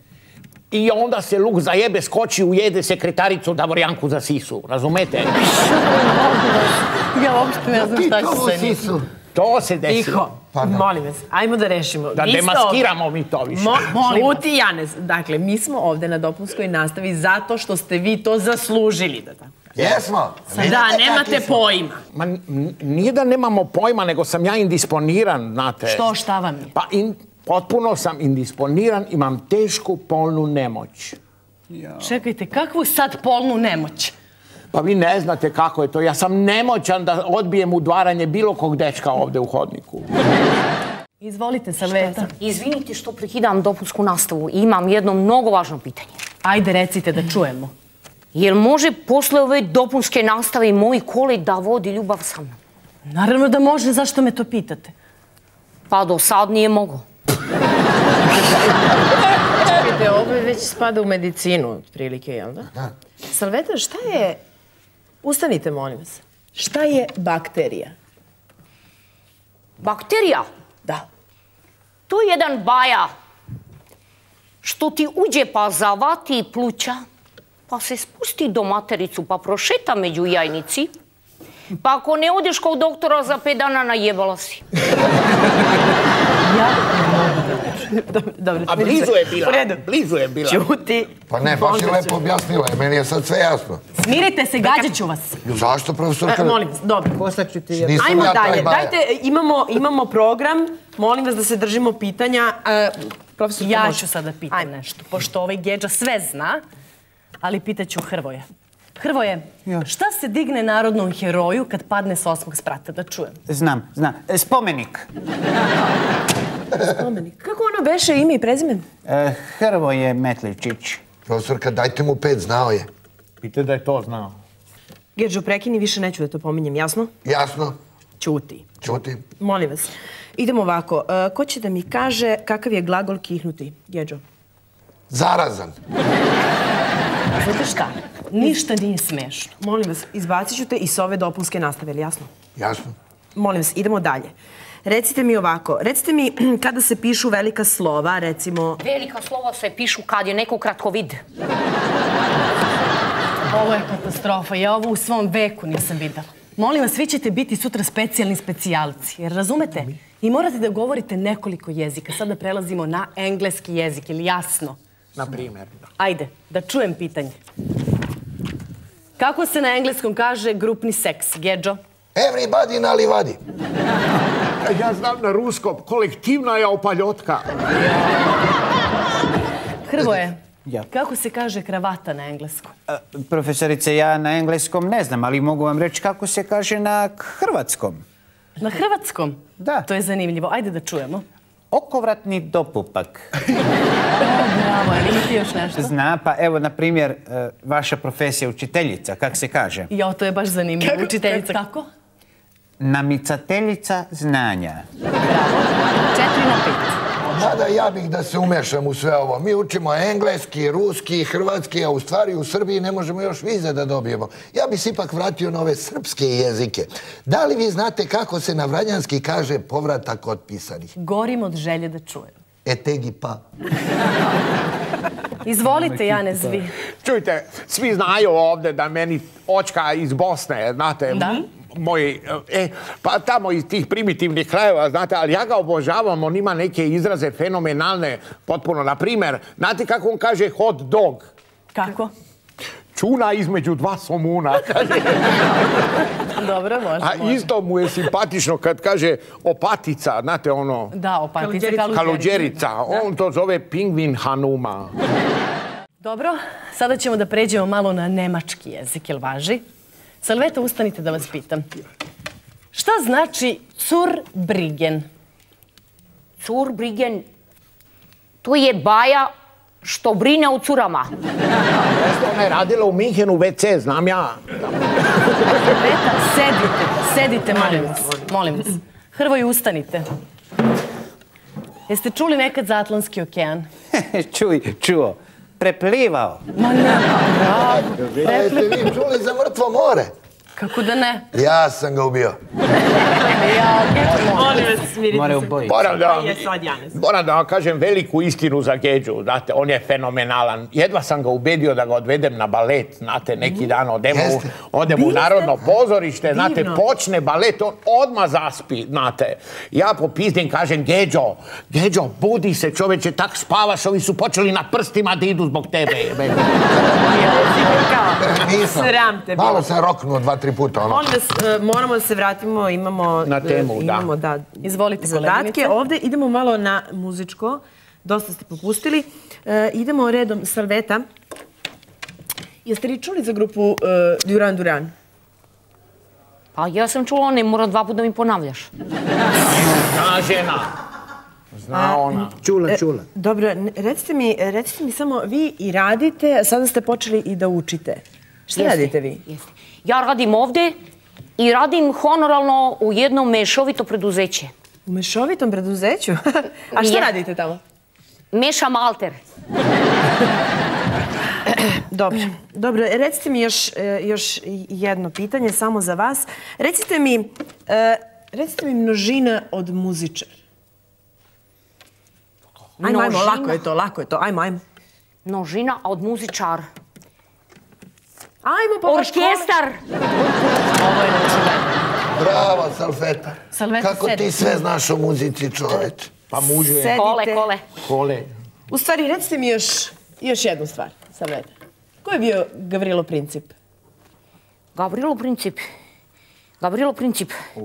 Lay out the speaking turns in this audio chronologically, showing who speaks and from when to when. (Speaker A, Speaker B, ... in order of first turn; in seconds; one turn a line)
Speaker A: 0.7-5.3
Speaker B: 5.4-8.8
Speaker C: 7.7-9.1
Speaker A: 9.3-10.2
Speaker D: 9.9-12.9
Speaker C: 10.6-10.9
Speaker A: 12.2-13.9
Speaker D: 13.5-19.6
Speaker B: 14.1-14.4
Speaker C: 19.8-21.6
Speaker D: 20.5-22.0
Speaker A: 22.1-26.1
Speaker B: 25.9-26.7
Speaker A: 26.7-31.2
Speaker E: 31.7-32.1
Speaker B: 32.0-34.1
Speaker A: 34.7-40.1
Speaker B: 41.2-42.3
Speaker D: 42.0-42.2
Speaker F: 42.4-46.2
Speaker B: 46.4-47.7
Speaker F: 48.3-52.6
Speaker B: 53.1-54.9
Speaker F: 55.9-57.0
Speaker D: 59.7-62.7
Speaker D: 63.3-64.4
Speaker D: 65.2-68.0
Speaker F: 69.8-70.5
Speaker F: 72.1-73.1
Speaker F: 74.6-77.0
Speaker F: 77.7-80.9
Speaker F: 81.7-84.6
Speaker B: 86.4-87.8
Speaker D: 87.9-89.8
Speaker A: 88.7-90.7
Speaker D: 90.5-92.2
Speaker C: 91.3-93.8
Speaker B: 94.0-95.4
Speaker C: 95.5-96.6
Speaker D: 96.2-97.2
Speaker E: 97.2-98.6
Speaker C: 97.7-99.0
Speaker D: 98.0-104.7
Speaker B: 103.6-106.6
Speaker B: 107.4-113.4
Speaker E: 113.5-115.1
Speaker D: 116.9-118.9
Speaker E: 119.0-121.0
Speaker C: 121.3-122.9
Speaker A: 123.4-124.4
Speaker D: 125.2-127.1
Speaker C: 127.2-127.8
Speaker D: 128.2-128.7
Speaker C: 128.8-129.2
Speaker D: 129.4-134.2
Speaker C: 135.1-135.8
Speaker B: 137.4-139.5
Speaker D: 139.6-142.3
Speaker C: 142.6-143.0
Speaker D: 143.3-144.3
Speaker D: 144.8-148.8
Speaker F: 148.8-151.2
Speaker B: 153.5-164.8
Speaker A: 165.2-165.7
Speaker B: 166.0-167.4
Speaker B: 169.2-171.8
Speaker C: 172.2-173.4
Speaker A: 174.6-177.6
Speaker B: 179.9-182.7
Speaker E: 182.9-188.0
Speaker B: 188.6-191.2
Speaker E: 189.6-189.9
Speaker E: 191.7-193.3
Speaker B: 194.2-195.9
Speaker E: 195.8-199.9
Speaker B: 199.9-201.9
Speaker D: 200.8-201.6
Speaker E: 202.8-204.9
Speaker B: 205.2-207.0
Speaker C: 207.2-220.9
Speaker B: 221.0-222.3
Speaker C: 222.7-223.4
Speaker B: 225.4-226.7
Speaker A: 227.0-241.3
Speaker B: 231.1-231.4
Speaker B: 241.7-242.1
Speaker A: 242.9-245.8
Speaker B: 246.2-247.5
Speaker A: 247.0-250.9
Speaker B: 250.9-253.0
Speaker D: 251.4-252.0
Speaker A: 251.9-254.9
Speaker B: 256.0-259.6
Speaker B: 260.2-261.7
Speaker B: 262.7-265.1
Speaker F: 266.4-267.2
Speaker F: 268.4-269.3
Speaker F: 269.8-271.1
Speaker A: 271.9-275.6
Speaker B: 275.6-280.1
Speaker D: 277.6-278.2
Speaker B: 281.9-283.7
Speaker E: 283.9-286.4
Speaker B: 286.6-288.8
Speaker C: 288.0-290.1
Speaker B: 290.6-291.3
Speaker C: 291.3-292.4
Speaker B: 293.2-294.7
Speaker D: 294.2-297.0
Speaker E: 295.1-295.8
Speaker A: 295.7-316.5
Speaker C: 304.1-304.5
Speaker D: 304.9-305.5
Speaker D: 306.3-306.8
Speaker D: 316.8-319.7
Speaker C: 318.2-321.1
Speaker D: 320.8-331.1
Speaker A: 323.2-324.1
Speaker B: 324.6-325.8
Speaker D: 332.6-334.9
Speaker F: 336.6-338.7
Speaker A: 339.5-340.7
Speaker A: 341.6-342.4
Speaker D: 341.7-349.2
Speaker E: 342.4-343.1
Speaker F: 348.6-350.8
Speaker F: 351.4-354.5
Speaker D: 354.9-357.6
Speaker F: 356.8-357.1
Speaker F: 358.3-359.2
Speaker D: 361.5-370.4
Speaker F: 372.8-373.6
Speaker D: 372.8-374.6
Speaker F: 375.2-376.7
Speaker D: 378.4-379.5
Speaker F: 378.9-379.8
Speaker B: 380.2-382.0
Speaker C: 382.1-386.1
Speaker B: 383.6-384.4
Speaker A: 386.3-387.0
Speaker D: 386.4-387.5
Speaker F: 386.9-387.6
Speaker A: 387.8-388.3
Speaker D: 388.7-393.5
Speaker F: 394.8-395.6
Speaker F: 396.6-397.4